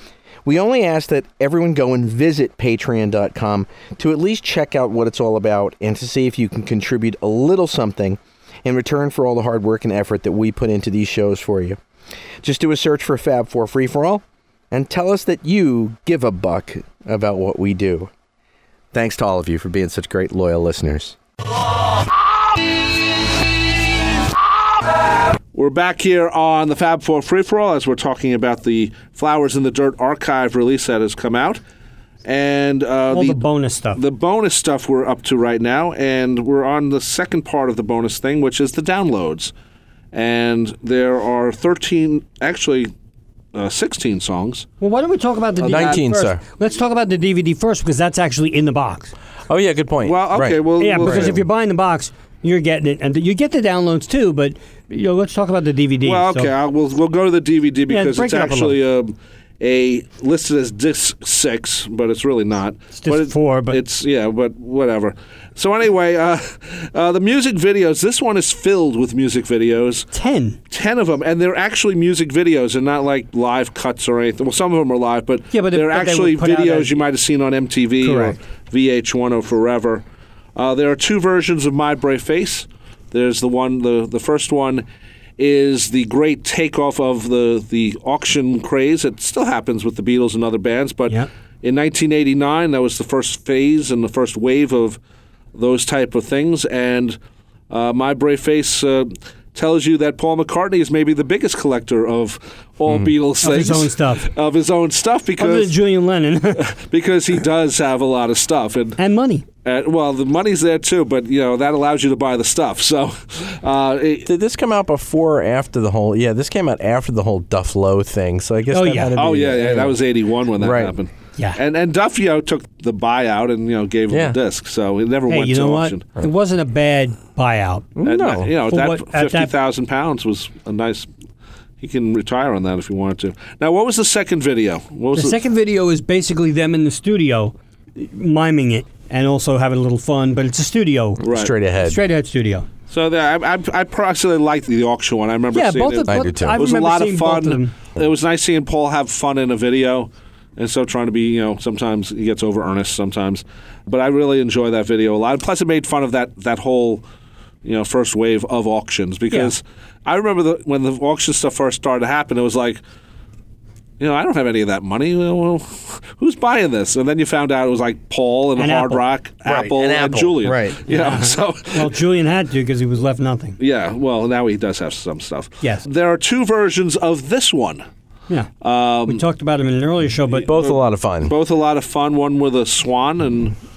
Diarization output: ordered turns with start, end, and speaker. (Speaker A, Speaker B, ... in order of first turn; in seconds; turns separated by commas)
Speaker A: 0.5-11.8, Speaker A: 12.4-18.1, Speaker A: 18.9-21.2, Speaker B: 25.5-31.6, Speaker B: 32.2-33.4, Speaker C: 33.1-34.0, Speaker B: 34.0-39.5, Speaker B: 40.1-42.9, Speaker B: 43.5-44.7, Speaker C: 44.8-49.1, Speaker B: 45.6-46.0, Speaker A: 45.7-46.4, Speaker A: 49.5-51.4, Speaker B: 50.0-51.4, Speaker C: 50.8-56.5, Speaker B: 56.0-70.1, Speaker C: 57.9-58.8, Speaker C: 63.0-63.8, Speaker C: 70.1-70.6, Speaker B: 70.7-80.0, Speaker C: 75.5-76.9, Speaker C: 78.0-78.4, Speaker B: 80.6-84.8, Speaker B: 85.4-95.0, Speaker B: 95.5-97.2, Speaker B: 97.7-105.8, Speaker A: 102.9-103.1, Speaker C: 103.4-104.3, Speaker C: 105.4-106.7, Speaker B: 106.6-109.0, Speaker C: 109.0-109.5, Speaker B: 109.7-114.3, Speaker A: 114.3-120.0, Speaker C: 118.7-119.2, Speaker B: 119.1-126.0, Speaker A: 120.6-120.9, Speaker A: 124.1-124.4, Speaker C: 125.3-127.9, Speaker A: 128.0-128.5, Speaker B: 128.1-131.1, Speaker C: 128.7-129.5, Speaker B: 131.8-135.4, Speaker C: 135.1-141.2, Speaker A: 141.2-142.0, Speaker B: 141.2-141.5, Speaker C: 141.8-142.7, Speaker B: 142.9-157.0, Speaker C: 145.5-147.7, Speaker A: 146.1-146.6, Speaker B: 157.6-162.8, Speaker B: 164.0-171.9, Speaker C: 168.6-169.0, Speaker A: 169.5-170.8, Speaker C: 170.9-173.6, Speaker B: 173.6-177.8, Speaker B: 178.6-179.2, Speaker C: 179.1-180.5, Speaker B: 180.4-183.6, Speaker A: 180.5-181.3